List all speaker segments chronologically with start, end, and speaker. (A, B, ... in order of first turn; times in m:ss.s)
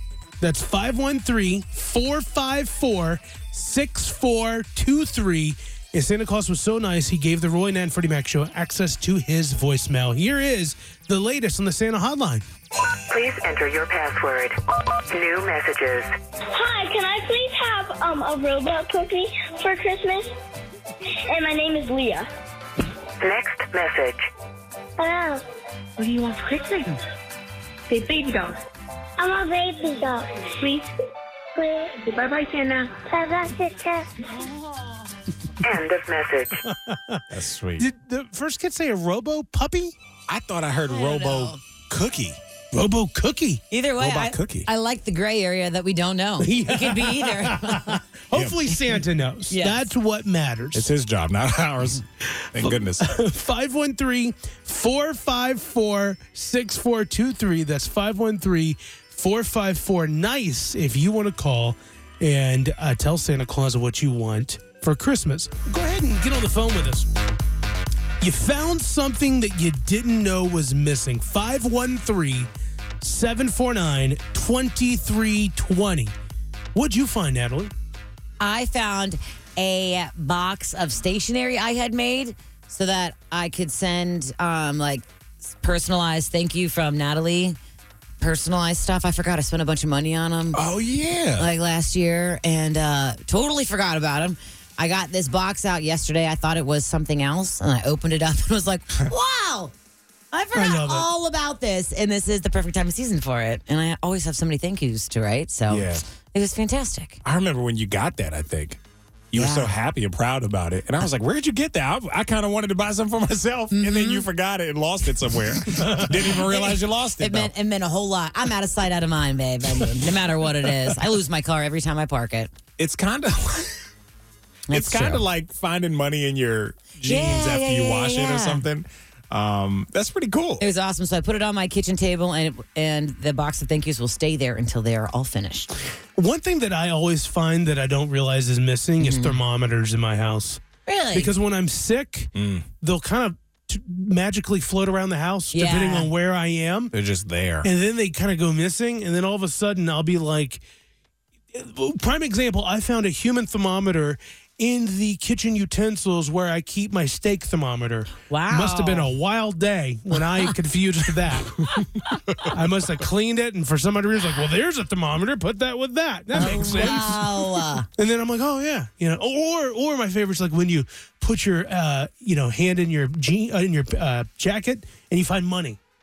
0:00.4-0:12.4 A
0:13.1-0:14.6 B
0:15.1-0:16.1 B
0:16.5-0:20.3 C
0:21.2-0:22.3 C
0:23.2-0:24.2 B
0:25.0-0:25.4 C
0:26.1-0:26.7 D
0:27.9-0:28.5 D
0:29.2-0:30.9 C
0:31.6-0:32.1 C
0:32.1-0:32.9 D
0:33.0-0:34.1 C
0:35.6-0:36.6 B
0:36.6-0:37.2 A
0:37.3-0:37.8 E
0:37.8-0:39.9 A
0:40.3-0:42.4 E
0:40.9-0:41.6 F
0:42.7-0:43.6 A
0:43.7-0:48.0 F
0:44.0-0:44.7 E
0:46.4-0:50.9 A
0:48.3-0:48.6 E
0:49.5-0:49.9 F
0:50.7-0:53.0 E
0:52.3-1:07.1 A
1:08.2-1:12.5 A
1:13.0-1:16.1 A
1:16.7-1:17.7 A
1:18.4-1:27.6 F
1:28.2-1:30.6 F
1:30.5-1:31.5 E
1:31.4-1:39.7 F
1:40.3-1:47.2 F
1:40.5-1:41.1 A
1:45.7-1:46.0 E
1:47.2-1:48.8 E
1:49.3-1:57.5 E
1:49.3-1:49.7 F
1:53.7-1:54.3 F
1:55.7-1:56.2 A
1:56.3-2:02.5 F
2:02.8-2:03.8 E
2:04.7-2:05.2 F
2:04.7-2:10.6 E
2:07.0-2:08.6 F
2:10.6-2:15.7 F
2:16.2-2:20.6 A
2:19.0-2:19.4 F
2:20.8-2:21.3 F
2:21.1-2:26.9 A
2:22.3-2:22.7 E
2:25.5-2:26.1 F
2:26.9-2:27.7 E
2:27.6-2:30.6 A
2:31.5-2:41.6 A
2:38.3-2:39.1 F
2:42.5-2:55.8 A
2:46.3-2:47.9 F